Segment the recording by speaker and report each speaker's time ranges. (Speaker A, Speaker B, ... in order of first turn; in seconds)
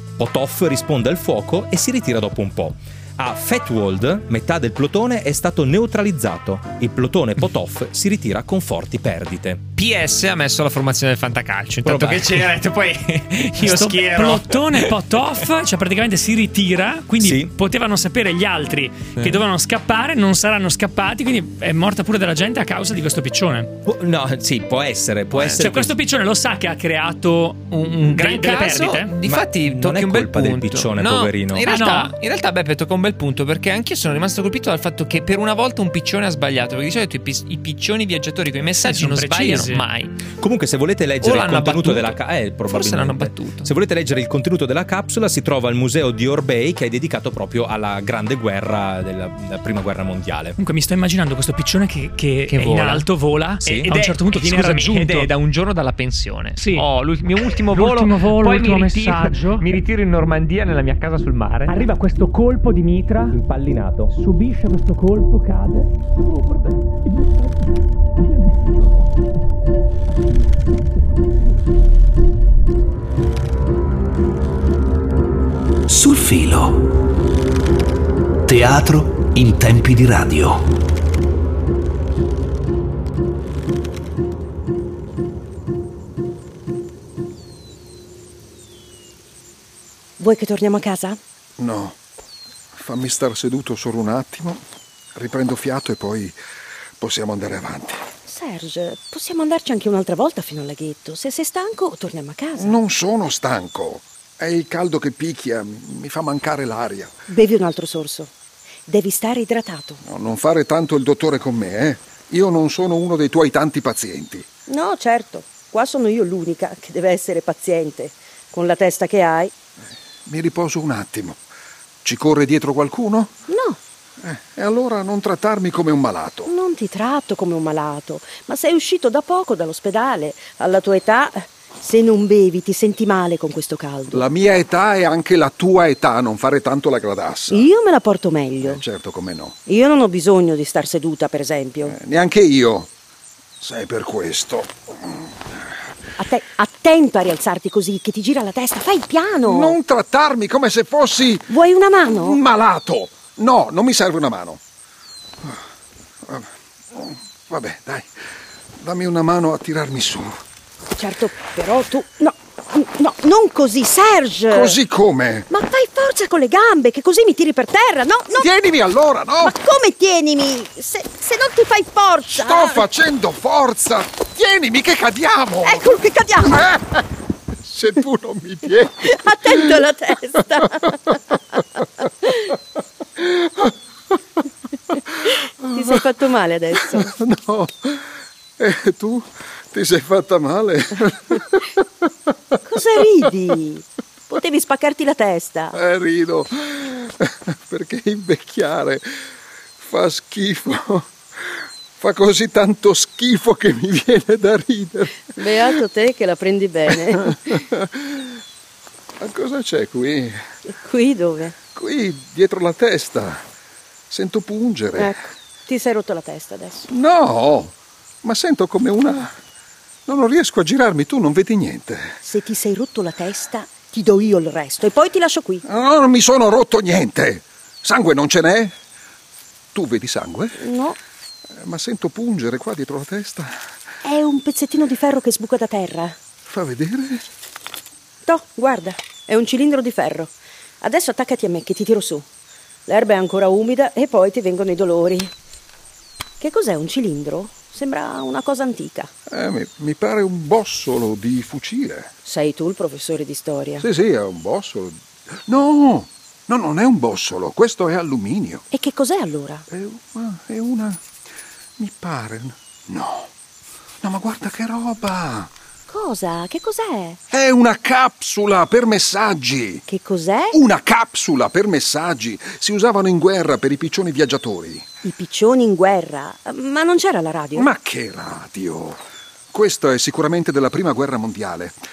Speaker A: 0.2-9.6, 11.8-12.5, 17.2-17.5, 23.8-25.9, 29.2-31.8, 40.4-50.6, 53.6-53.9, 63.3-64.1
Speaker B: 9.8-15.4, 25.3-25.7, 28.1-40.1, 41.2-43.7, 52.5-53.1, 53.6-61.9
Speaker C: 13.6-23.7, 25.6-29.1, 31.6-32.1, 38.7-39.9, 50.6-55.3, 56.6-56.9, 57.6-59.8, 61.7-63.4, 64.1-67.4
Speaker D: 75.9-76.9, 78.5-80.7
Speaker E: 90.2-91.2, 98.2-102.7, 107.3-108.3, 108.9-110.0, 114.7-119.5, 123.5-123.8, 126.5-134.2, 137.5-138.8, 139.7-141.9, 146.2-149.8, 151.5-152.4, 161.0-164.8, 165.5-168.5, 169.4-172.8, 175.6-176.7, 179.1-181.2, 185.7-187.1, 192.6-195.8, 205.3-207.6, 210.7-211.6, 215.0-216.9, 222.2-225.6, 230.6-231.0, 234.0-236.2, 238.2-242.2, 242.9-245.3, 246.4-249.1, 252.2-253.8, 258.7-259.6, 265.9-267.2, 269.9-270.6, 275.0-277.7
Speaker F: 91.6-92.0, 92.7-94.6, 95.1-96.3, 97.0-98.0, 102.6-107.1, 110.0-114.5, 120.2-121.4, 122.0-123.4, 124.2-126.5, 134.1-137.7, 138.6-139.6, 141.8-142.9, 143.6-145.6, 149.4-154.6, 156.2-158.1, 158.8-160.4, 164.5-165.5, 168.3-169.5, 172.3-176.8, 177.6-181.2, 181.8-182.3, 183.2-183.7, 185.3-186.1, 186.8-188.1, 188.6-192.6, 195.7-199.1, 199.8-205.8, 206.9-208.3, 209.2-210.4, 211.7-213.4, 214.1-215.2, 216.9-219.3, 220.1-222.2, 225.6-228.7, 229.7-230.6, 231.5-233.6, 236.4-237.2, 249.3-252.1, 253.8-258.6, 259.7-261.0, 261.8-263.3, 264.0-265.5, 267.3-269.8, 270.5-274.9, 277.5-279.0, 279.5-281.8